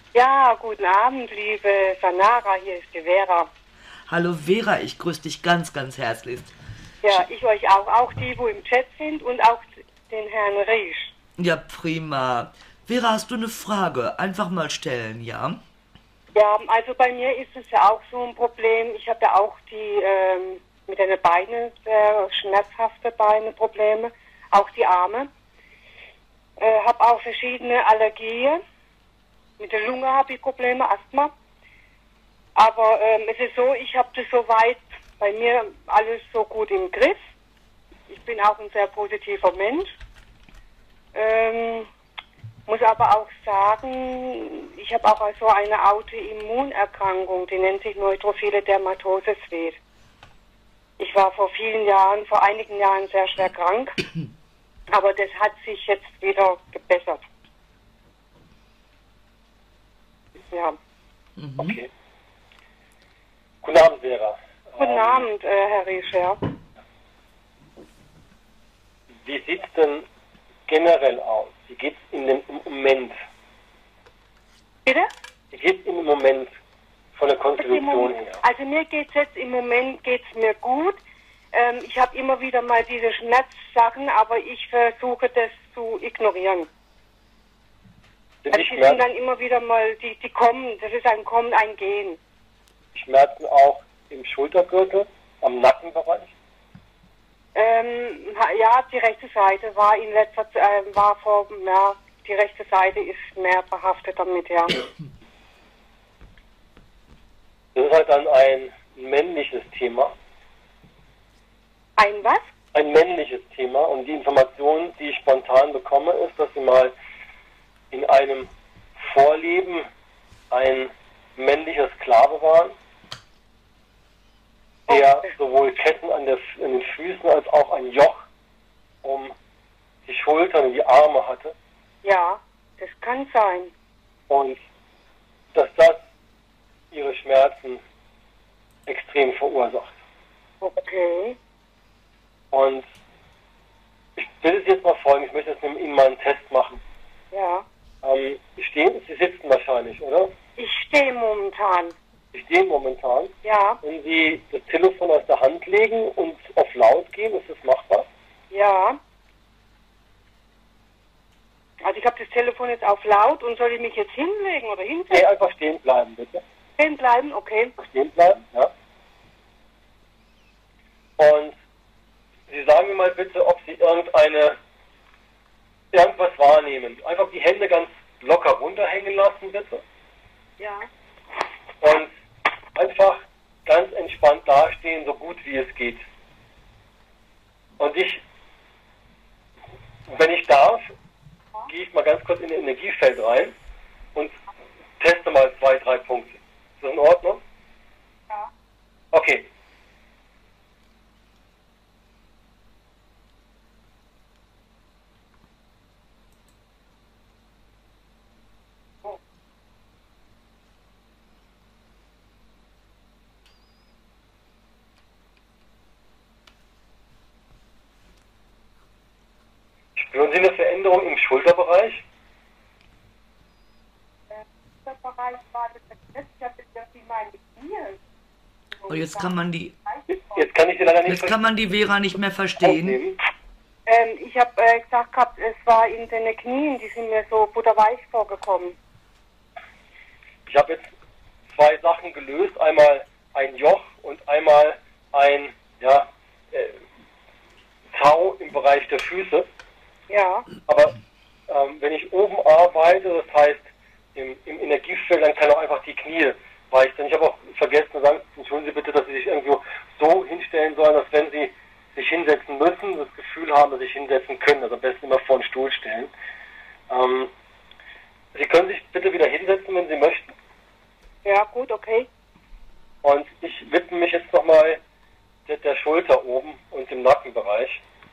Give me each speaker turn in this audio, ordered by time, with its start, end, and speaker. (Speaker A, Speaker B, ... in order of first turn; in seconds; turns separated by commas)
Speaker A: 0.1-3.5, Speaker B: 4.1-6.5, Speaker A: 7.0-11.1, Speaker B: 11.4-15.6, Speaker A: 16.3-25.3, Speaker A: 26.6-28.6, Speaker A: 29.6-31.3, Speaker A: 32.5-37.2, Speaker A: 38.1-40.0, Speaker A: 41.1-41.9, Speaker A: 42.7-49.8, Speaker A: 51.0-54.0, Speaker A: 54.9-57.2, Speaker A: 60.5-60.8, Speaker B: 61.4-61.8, Speaker C: 61.6-61.9, Speaker C: 63.6-65.3, Speaker A: 64.8-66.4, Speaker C: 69.2-70.0, Speaker C: 70.7-73.2, Speaker C: 75.5-76.5, Speaker C: 77.2-78.4, Speaker A: 77.6-81.0, Speaker A: 81.5-86.7, Speaker C: 88.4-89.0, Speaker A: 88.5-92.2, Speaker C: 92.9-96.3, Speaker A: 97.5-104.8, Speaker C: 107.7-110.1, Speaker A: 112.0-112.5, Speaker C: 112.7-116.9, Speaker C: 117.9-119.9, Speaker C: 120.5-122.7, Speaker C: 124.9-128.3, Speaker C: 129.0-129.3, Speaker C: 130.1-131.6, Speaker A: 132.0-133.7, Speaker C: 134.3-134.6, Speaker C: 135.5-136.0, Speaker C: 136.9-137.8, Speaker C: 138.9-140.0, Speaker A: 140.6-141.4, Speaker C: 142.5-142.8, Speaker C: 144.2-146.8, Speaker A: 147.3-147.7, Speaker C: 148.0-150.3, Speaker A: 150.6-151.9, Speaker C: 152.3-158.1, Speaker A: 153.4-153.8, Speaker A: 158.5-159.0, Speaker A: 161.8-165.3, Speaker C: 165.1-166.4, Speaker A: 166.8-167.7, Speaker C: 167.8-168.7, Speaker C: 171.2-171.5, Speaker C: 172.5-174.6, Speaker C: 175.9-179.8, Speaker C: 181.8-182.1, Speaker C: 182.7-186.0, Speaker C: 187.8-188.2, Speaker C: 190.1-190.9, Speaker C: 191.7-193.5, Speaker C: 195.0-197.4, Speaker C: 199.1-199.5, Speaker C: 219.9-222.0, Speaker A: 224.3-228.0, Speaker A: 228.8-229.3, Speaker B: 228.9-229.7, Speaker C: 230.1-231.4, Speaker B: 231.1-233.0, Speaker C: 232.6-233.2, Speaker A: 233.8-238.8, Speaker C: 240.5-240.9, Speaker C: 241.5-246.8, Speaker C: 247.9-249.5, Speaker A: 250.1-250.5, Speaker C: 250.7-250.9, Speaker C: 251.5-266.1, Speaker C: 266.9-267.3, Speaker C: 268.3-270.3, Speaker A: 271.2-272.1, Speaker C: 273.0-274.8, Speaker C: 275.5-277.8